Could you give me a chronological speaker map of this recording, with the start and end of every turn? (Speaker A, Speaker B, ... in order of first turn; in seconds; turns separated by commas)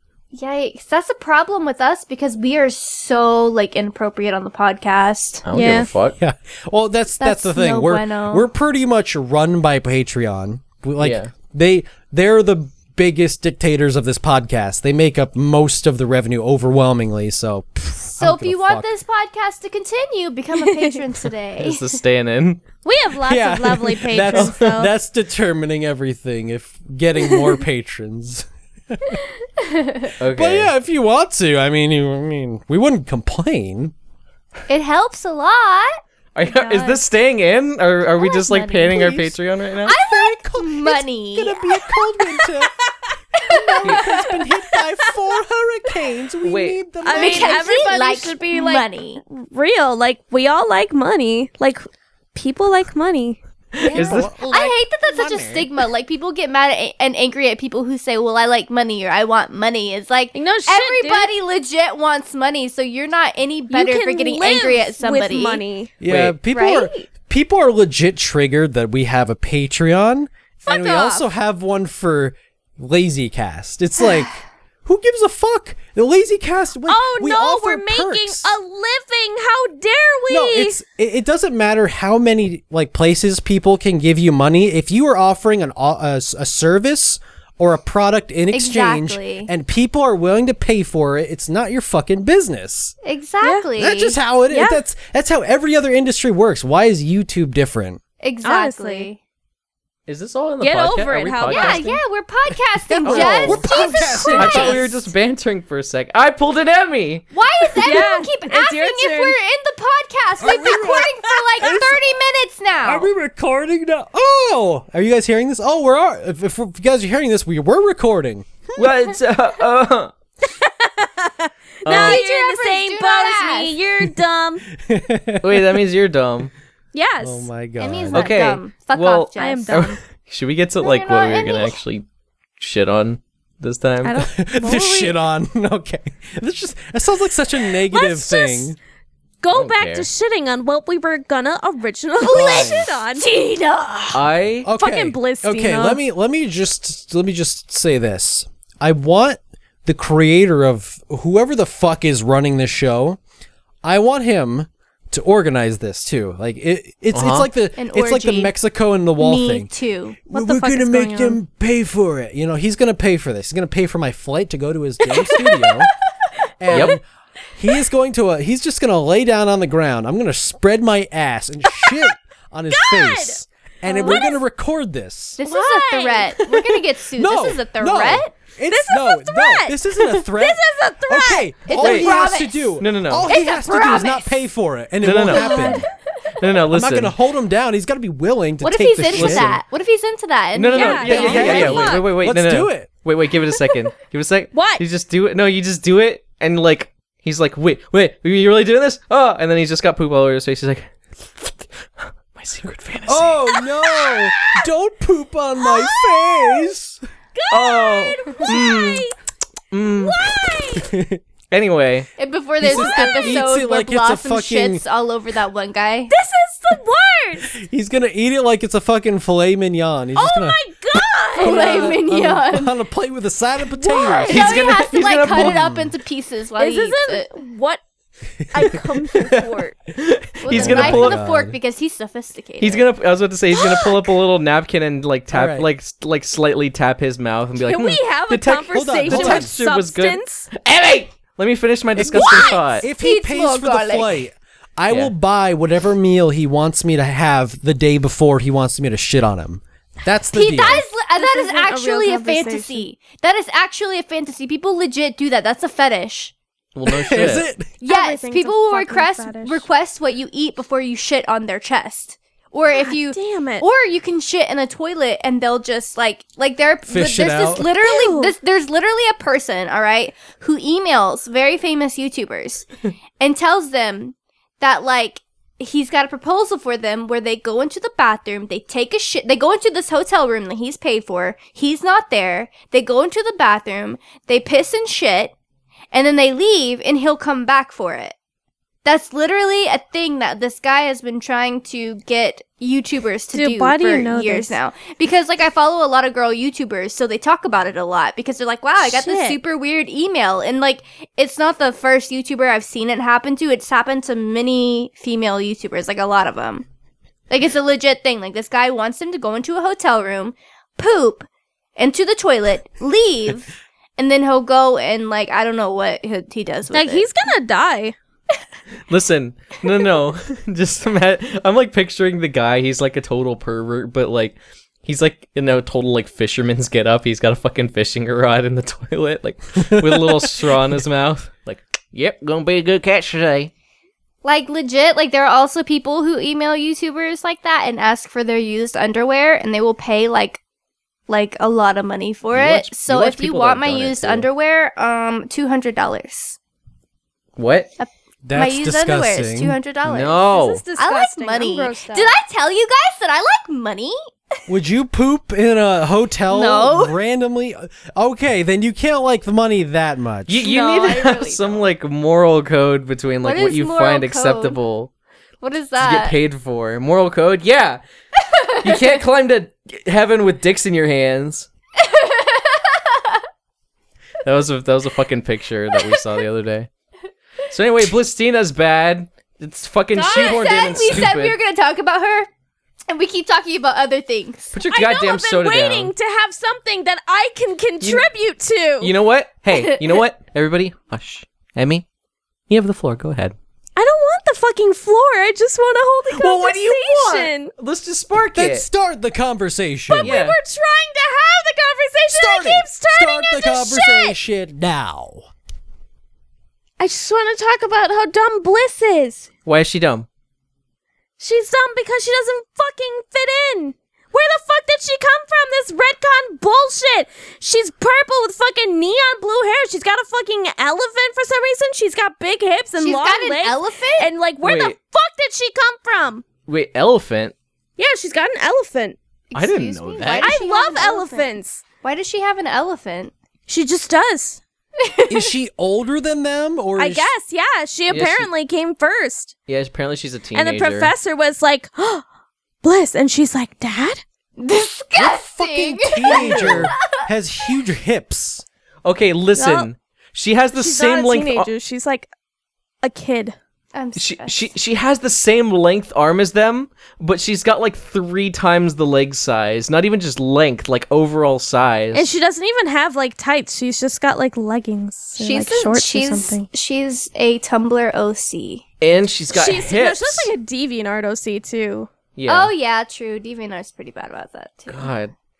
Speaker A: 0.3-5.5, Speaker B: 5.4-6.2, Speaker C: 5.5-5.9, Speaker D: 6.2-18.9, Speaker A: 7.2-8.4, Speaker B: 11.0-11.3, Speaker A: 18.2-22.0, Speaker C: 20.5-21.0, Speaker B: 21.6-22.6, Speaker C: 22.8-24.9, Speaker D: 23.2-29.2, Speaker B: 24.2-24.6, Speaker A: 29.6-30.1, Speaker B: 30.2-30.7, Speaker D: 30.3-33.9, Speaker A: 34.7-36.0, Speaker B: 36.3-40.0, Speaker C: 36.5-37.0, Speaker A: 38.2-39.3, Speaker A: 39.8-42.0, Speaker D: 39.9-42.7, Speaker A: 43.4-44.4, Speaker D: 43.5-47.6, Speaker B: 46.4-46.8, Speaker C: 47.0-53.4, Speaker A: 47.1-49.2, Speaker B: 53.7-54.3, Speaker A: 53.8-65.6, Speaker D: 53.9-55.7, Speaker C: 60.3-61.3, Speaker C: 63.7-65.9, Speaker D: 66.0-78.5, Speaker B: 66.1-66.3, Speaker A: 66.5-67.0, Speaker C: 70.7-71.2, Speaker C: 76.9-80.8, Speaker D: 80.3-92.9, Speaker A: 88.5-89.5, Speaker A: 93.0-94.2, Speaker D: 93.8-98.0, Speaker C: 94.5-94.8, Speaker A: 98.2-99.2, Speaker C: 98.4-99.1, Speaker B: 100.1-101.8, Speaker C: 100.6-102.0, Speaker A: 101.5-104.8, Speaker D: 102.9-105.1, Speaker B: 103.0-103.6, Speaker C: 103.1-104.8, Speaker B: 104.3-107.2, Speaker A: 107.3-113.1, Speaker C: 107.8-109.4, Speaker D: 110.4-112.1, Speaker D: 112.8-118.7, Speaker B: 118.8-120.1, Speaker C: 120.4-124.6, Speaker B: 121.8-122.2, Speaker A: 121.9-123.8, Speaker D: 124.8-125.8, Speaker B: 125.4-126.5, Speaker C: 126.9-127.5, Speaker D: 127.2-128.3, Speaker A: 127.8-129.9, Speaker B: 128.1-132.0, Speaker C: 129.4-130.0, Speaker A: 130.8-131.8, Speaker B: 132.6-134.2, Speaker C: 134.0-135.1, Speaker D: 134.3-138.8, Speaker C: 137.9-138.7, Speaker C: 139.4-143.3, Speaker B: 139.5-140.1, Speaker A: 142.2-144.2, Speaker D: 142.2-142.9, Speaker B: 144.1-144.7, Speaker D: 144.6-153.2, Speaker C: 144.8-146.0, Speaker D: 153.8-159.7, Speaker B: 157.1-157.5, Speaker A: 157.8-158.5, Speaker A: 159.2-160.2, Speaker D: 160.2-165.9, Speaker C: 160.3-161.4, Speaker C: 165.3-165.7, Speaker D: 166.6-167.0, Speaker B: 166.7-167.0, Speaker D: 167.6-175.4, Speaker C: 172.7-174.4, Speaker A: 174.0-174.2, Speaker A: 175.4-178.3, Speaker C: 175.4-176.3, Speaker D: 177.2-185.8, Speaker C: 178.7-181.5, Speaker A: 181.7-184.3, Speaker B: 181.8-182.1, Speaker B: 182.8-183.3, Speaker B: 185.0-185.7, Speaker C: 185.3-185.8, Speaker B: 186.4-187.1, Speaker D: 186.7-189.6, Speaker A: 188.6-191.9, Speaker B: 189.1-189.6, Speaker B: 190.5-203.5, Speaker C: 190.7-192.1, Speaker D: 191.0-192.9, Speaker C: 194.5-194.8, Speaker D: 203.1-207.0, Speaker C: 204.0-204.3, Speaker C: 205.6-206.7, Speaker C: 207.3-209.1, Speaker B: 207.5-209.1, Speaker B: 209.7-210.3, Speaker C: 210.0-210.9, Speaker D: 210.8-211.2, Speaker B: 211.5-212.1, Speaker A: 212.2-216.1, Speaker D: 212.6-214.8, Speaker C: 212.6-213.5, Speaker C: 216.1-217.5, Speaker D: 217.5-220.6, Speaker C: 220.2-222.0, Speaker A: 221.4-222.7, Speaker D: 221.4-224.6, Speaker C: 223.8-224.2, Speaker A: 224.0-227.3, Speaker B: 224.3-225.6, Speaker D: 225.3-225.9, Speaker C: 226.6-227.8, Speaker C: 228.5-229.8, Speaker B: 229.2-231.2, Speaker A: 230.4-232.9, Speaker D: 230.5-231.6, Speaker B: 232.6-242.9, Speaker D: 235.3-235.7, Speaker C: 237.6-240.5, Speaker D: 238.7-239.6, Speaker D: 241.9-250.8, Speaker A: 242.2-244.2, Speaker A: 250.3-256.3, Speaker C: 250.6-252.8, Speaker B: 256.7-257.5, Speaker D: 256.9-257.7, Speaker C: 257.8-259.6, Speaker A: 257.8-272.7, Speaker C: 262.7-263.6, Speaker D: 266.9-267.7, Speaker C: 267.8-268.3, Speaker A: 273.2-285.3, Speaker A: 285.9-288.1, Speaker A: 288.8-306.6, Speaker C: 293.3-294.6, Speaker C: 298.8-299.4, Speaker A: 307.3-317.1, Speaker C: 316.7-317.9, Speaker B: 318.9-333.5, Speaker D: 329.7-330.3, Speaker A: 334.2-340.4, Speaker A: 341.1-346.4, Speaker B: 342.3-344.3, Speaker B: 347.4-347.7, Speaker A: 347.8-350.2, Speaker D: 348.2-349.6, Speaker B: 349.8-350.6, Speaker C: 350.2-352.1, Speaker A: 350.8-354.0, Speaker D: 354.5-360.4, Speaker A: 356.3-356.9, Speaker B: 360.3-364.9, Speaker A: 360.4-361.7, Speaker A: 363.2-364.6, Speaker A: 365.4-366.2, Speaker B: 365.8-367.8, Speaker A: 368.2-369.0, Speaker B: 368.6-371.5, Speaker A: 371.8-373.2, Speaker B: 374.2-376.7, Speaker B: 377.5-381.4, Speaker A: 379.9-382.3, Speaker A: 382.9-384.5, Speaker B: 384.5-385.9, Speaker C: 384.7-388.9, Speaker B: 387.8-388.1, Speaker B: 388.8-391.8, Speaker B: 392.5-393.3, Speaker C: 393.8-397.5, Speaker B: 396.1-398.6, Speaker D: 398.3-400.2, Speaker C: 399.9-404.1, Speaker B: 400.0-400.4, Speaker D: 402.1-405.3, Speaker C: 406.8-409.3, Speaker B: 409.4-410.1, Speaker C: 411.2-426.2, Speaker A: 422.8-424.1, Speaker B: 424.4-424.8, Speaker B: 426.5-427.3, Speaker C: 427.8-429.0, Speaker A: 429.3-431.3, Speaker B: 429.3-430.3, Speaker C: 430.2-431.6, Speaker A: 431.8-433.1, Speaker C: 433.5-434.4, Speaker A: 434.8-435.3, Speaker D: 435.1-437.1, Speaker C: 436.8-439.3, Speaker B: 437.9-438.3, Speaker B: 439.5-440.9, Speaker C: 440.3-442.0, Speaker C: 442.6-444.0, Speaker A: 444.4-446.9, Speaker D: 444.9-448.4, Speaker B: 446.1-446.7, Speaker B: 448.8-451.5, Speaker C: 449.3-449.7, Speaker C: 450.5-452.1, Speaker C: 452.8-453.4, Speaker A: 453.7-454.5, Speaker B: 453.9-462.1, Speaker C: 461.9-466.5, Speaker A: 465.2-468.6, Speaker B: 468.8-470.3, Speaker C: 469.3-471.9, Speaker B: 472.1-472.5, Speaker A: 472.3-474.9, Speaker B: 474.7-475.1